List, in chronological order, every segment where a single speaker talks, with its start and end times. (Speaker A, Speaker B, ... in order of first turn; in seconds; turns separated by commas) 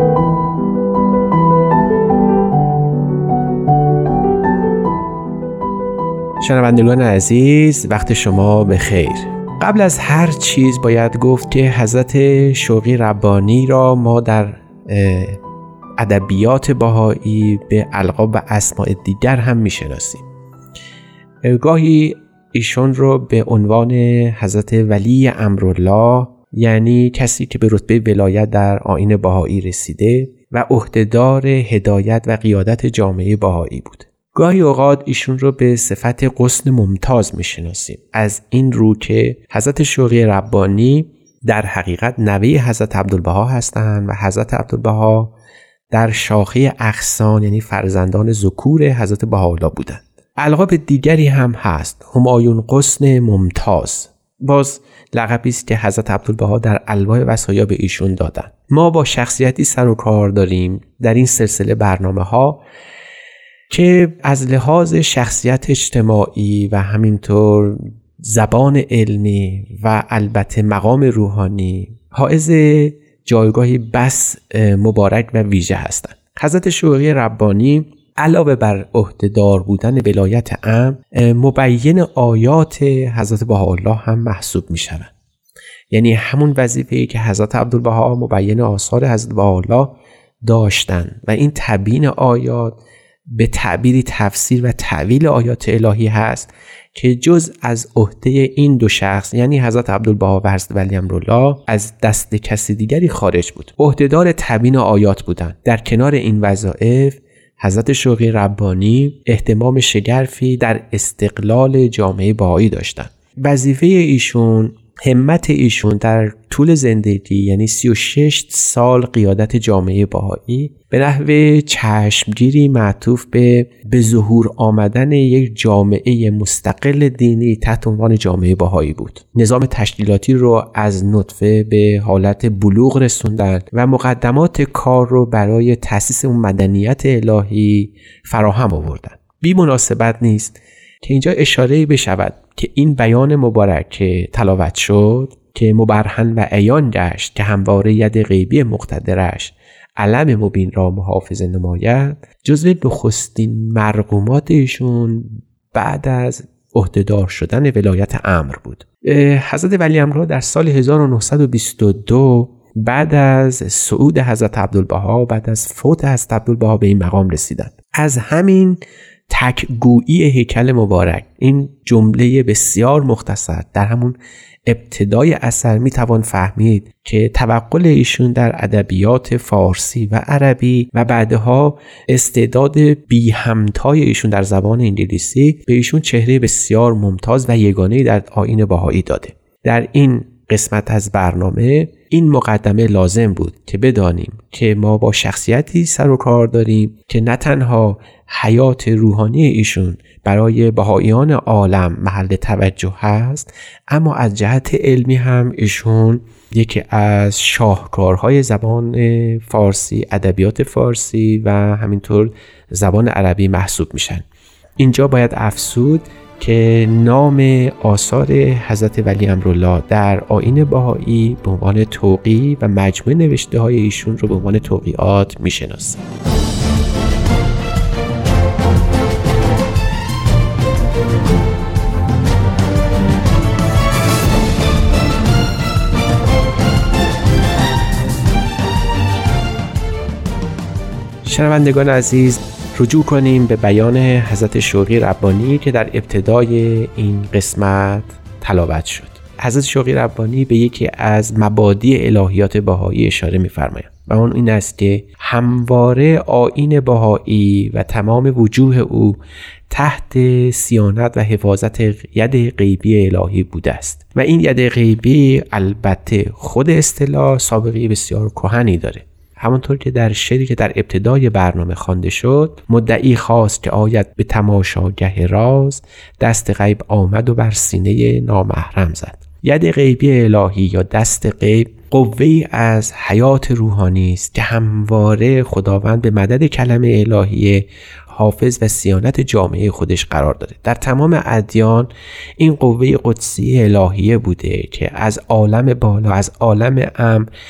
Speaker A: 6.4-15.4, Speaker A: 16.0-20.2, Speaker A: 21.4-45.3, Speaker A: 45.9-62.6, Speaker A: 63.7-85.1, Speaker A: 85.9-92.8, Speaker A: 93.3-174.2, Speaker A: 174.7-214.2, Speaker A: 214.8-226.0, Speaker A: 241.3-259.2, Speaker A: 259.7-297.3